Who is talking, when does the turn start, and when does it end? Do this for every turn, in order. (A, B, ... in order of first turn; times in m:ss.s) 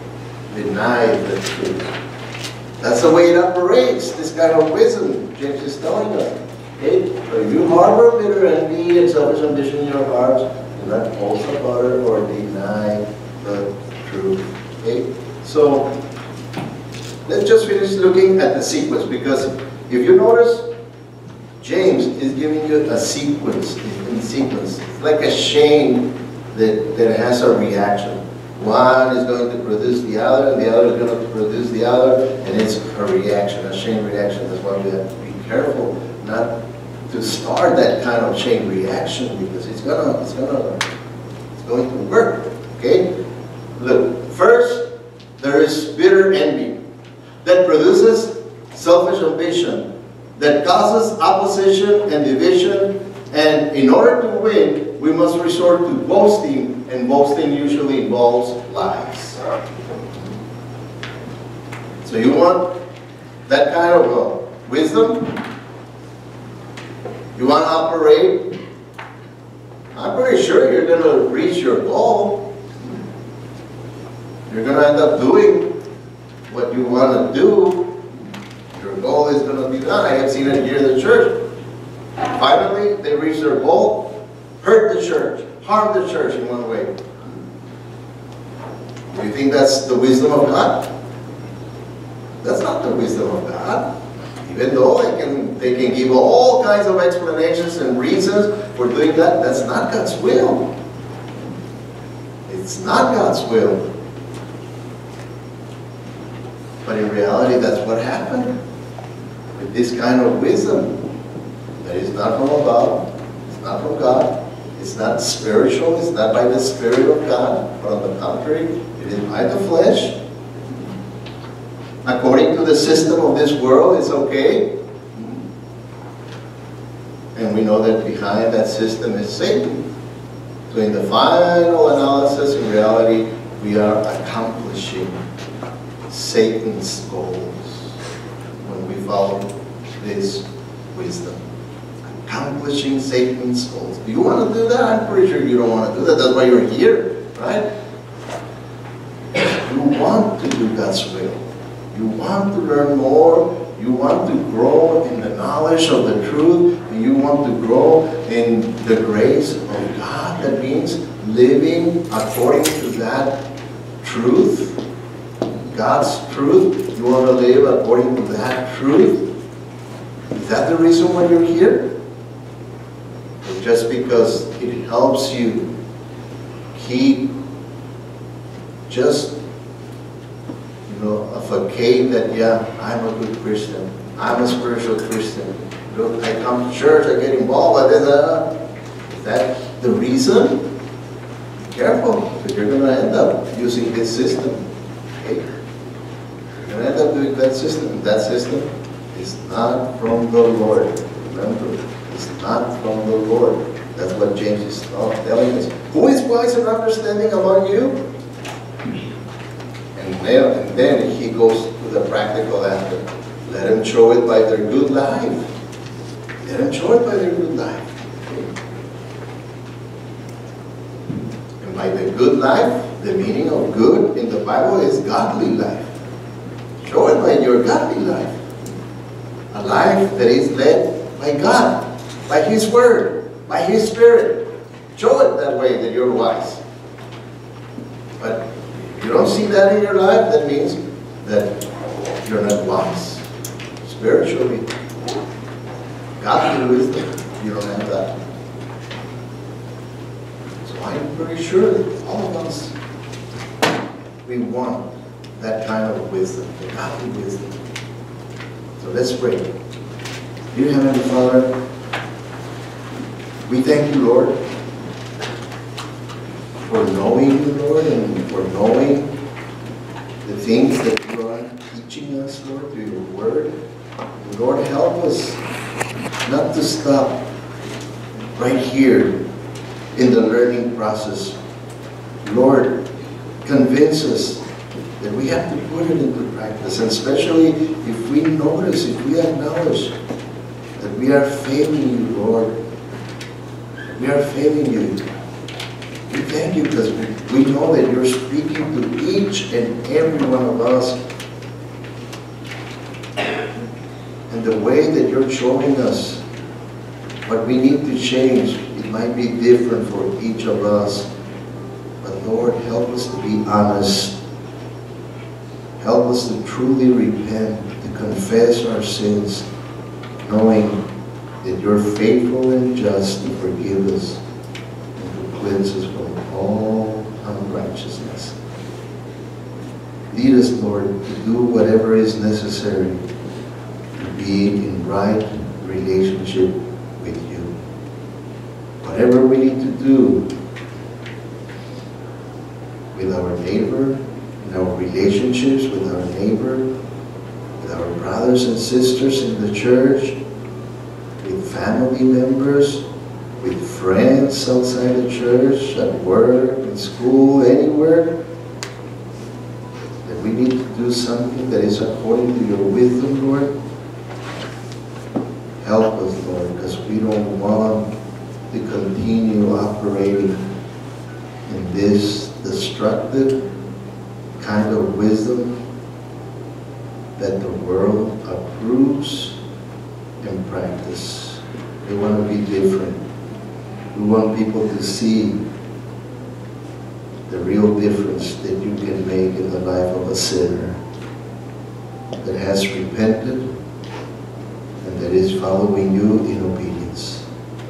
0:00.5-0:01.9 A
0:02.8-0:15.9 A
0:17.2-0:20.6 A
0:21.6-0:36.5 A
0:37.1-0:40.8 A
0:41.6-0:43.1 A
0:43.8-0:44.8 A
0:45.4-0:46.8 A
0:47.4-0:49.8 A
0:50.4-0:59.4 A
1:02.0-1:02.7 A
1:03.5-1:05.2 A
1:07.3-1:08.5 A
1:09.9-1:12.4 A
1:14.5-1:15.7 A
1:16.5-1:17.9 A
1:18.7-1:21.3 A
1:22.3-1:24.1 A
1:24.6-1:27.3 A
1:29.1-1:30.9 A
1:32.4-1:33.8 A
1:34.4-1:40.7 A
1:42.4-1:43.8 A
1:46.8-1:48.5 A
1:49.5-1:50.9 A
1:51.8-2:00.2 A
2:02.0-2:05.4 A
2:07.3-2:09.8 A
2:10.7-2:15.2 A
2:16.1-2:17.9 A
2:18.6-2:21.4 A
2:22.2-2:27.6 A
2:29.5-2:43.4 A
2:44.0-2:44.8 A
2:45.7-2:49.2 A
2:50.3-2:51.9 A
2:53.4-2:55.6 A
2:56.7-2:57.3 A
2:58.9-2:59.3 A
3:00.8-3:08.5 A
3:09.0-3:10.6 A
3:11.7-3:14.6 A
3:15.2-3:15.4 A
3:16.6-3:28.0 A
3:29.9-3:35.5 A
3:36.4-3:38.5 A
3:41.6-3:45.9 A
3:46.8-3:48.4 A
3:49.5-3:54.4 A
3:54.9-3:56.6 A
3:58.2-4:01.5 A
4:02.2-4:03.2 A
4:03.8-4:04.6 A
4:06.2-4:08.1 A
4:10.6-4:12.7 A
4:14.2-4:14.8 A
4:15.4-4:17.6 A
4:18.8-4:19.5 A
4:20.5-4:21.5 A
4:23.5-4:24.4 A
4:26.6-4:29.1 A
4:30.2-4:33.5 A
4:34.2-4:35.4 A
4:36.2-4:37.2 A
4:38.4-4:39.2 A
4:39.9-4:41.4 A
4:42.2-4:42.8 A
4:43.4-4:44.4 A
4:45.0-4:49.9 A
4:50.8-4:52.5 A
4:53.9-4:55.0 A
4:56.1-5:01.0 A
5:04.3-5:06.2 A
5:07.2-5:11.1 A
5:12.0-5:14.2 A
5:15.8-5:19.5 A
5:20.2-5:20.8 A
5:21.4-5:24.2 A
5:25.0-5:28.4 A
5:30.1-5:33.0 A
5:33.9-5:37.5 A
5:38.8-5:40.2 A
5:42.9-5:46.7 A
5:47.6-5:50.2 A
5:51.2-5:52.8 A
5:53.4-5:58.1 A
6:00.0-6:03.5 A
6:05.6-6:07.9 A
6:08.5-6:10.4 A
6:11.5-6:13.4 A
6:14.4-6:15.6 A
6:17.2-6:19.4 A
6:20.2-6:23.0 A
6:23.9-6:25.4 A
6:27.3-6:30.8 A
6:32.2-6:33.5 A
6:34.8-6:37.2 A